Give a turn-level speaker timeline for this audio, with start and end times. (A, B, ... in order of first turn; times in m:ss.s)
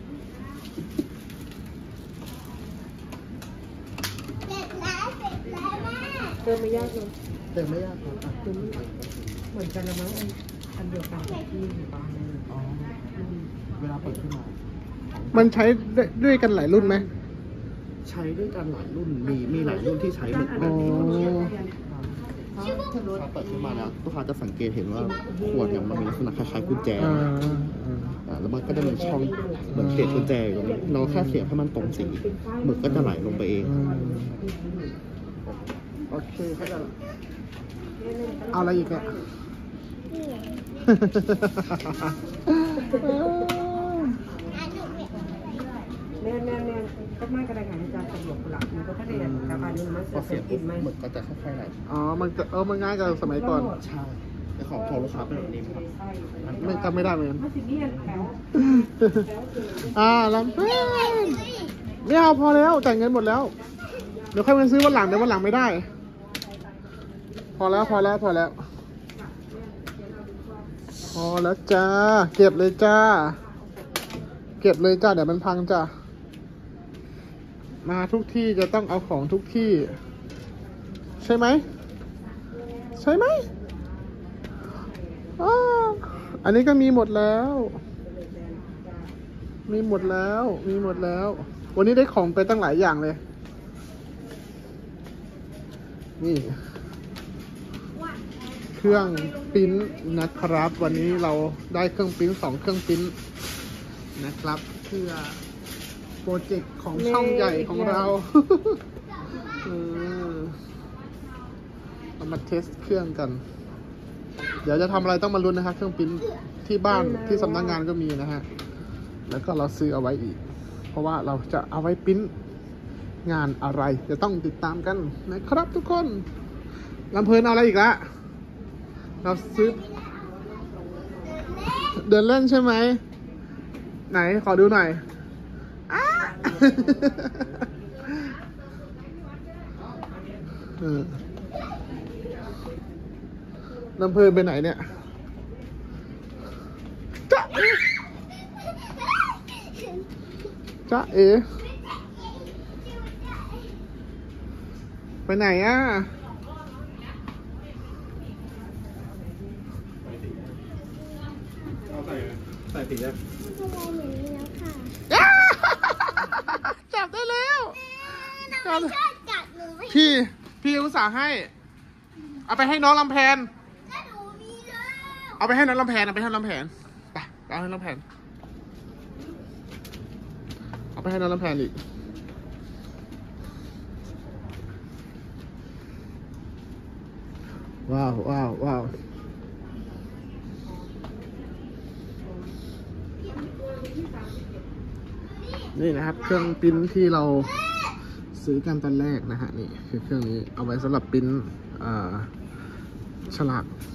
0:06.4-0:07.1 A
0:07.5-0:09.5 B
0:09.5-0:12.5 A
0:12.5-0:13.3 B
0:13.8-0:15.6 B
0:15.3-0:17.1 C
0:16.8-0:17.1 A
0:18.0-0:21.2 B
0:20.3-0:21.7 A
0:20.6-0:21.5 C
0:22.5-0:27.3 B
0:25.0-0:27.4 A
0:27.0-0:28.2 C
0:28.3-0:33.8 B
0:28.7-0:30.8 A
0:29.7-0:30.4 C
0:31.0-0:31.5 C
0:31.8-0:34.9 A
0:33.6-0:34.4 C
0:36.1-0:36.8 C
0:36.4-0:36.9 B
0:38.0-0:39.2 A
0:38.5-0:39.1 C
0:40.8-0:44.2 C
0:42.8-0:43.2 A
0:46.2-0:50.9 A
0:49.1-0:49.8 C
0:50.1-0:51.8 B
0:51.9-0:53.8 C
0:53.2-0:53.8 A
0:53.8-0:55.8 B
0:54.7-1:00.4 A
0:56.4-0:56.8 B
0:56.6-0:57.4 C
0:58.4-1:03.6 C
1:04.3-1:05.9 C
1:07.6-1:08.6 C
1:09.2-1:10.6 A
1:11.1-1:13.4 C
1:14.6-1:15.9 C
1:17.8-1:20.0 C
1:21.2-1:21.6 C
1:23.0-1:23.5 C
1:25.4-1:27.8 C
1:28.1-1:29.0 A
1:29.7-1:33.2 C
1:36.2-1:36.6 C
1:38.8-1:43.1 C
1:44.2-1:45.4 C
1:46.2-1:48.8 C
1:46.9-1:48.1 A
1:49.6-1:50.6 C
1:52.2-1:53.4 C
1:54.6-1:58.4 C
1:56.9-1:57.8 A
1:59.3-2:00.4 C
2:00.9-2:02.3 C
2:03.2-2:06.3 C
2:07.1-2:08.1 C
2:09.2-2:09.9 C
2:11.8-2:13.0 C
2:14.1-2:15.0 C
2:15.9-2:18.3 C
2:20.8-2:21.2 C
2:24.0-2:24.9 C
2:27.3-2:27.8 C
2:30.9-2:31.4 C
2:35.3-2:36.1 C
2:42.8-2:44.9 D
2:45.1-2:49.2 C
2:49.0-2:49.8 D
2:49.8-2:51.5 C
2:52.5-2:53.5 C
2:54.0-2:55.0 D
2:55.3-2:58.0 C
3:01.0-3:01.8 C
3:07.9-3:08.9 C
3:15.8-3:17.5 C
3:18.4-3:22.3 C
3:23.3-3:23.8 C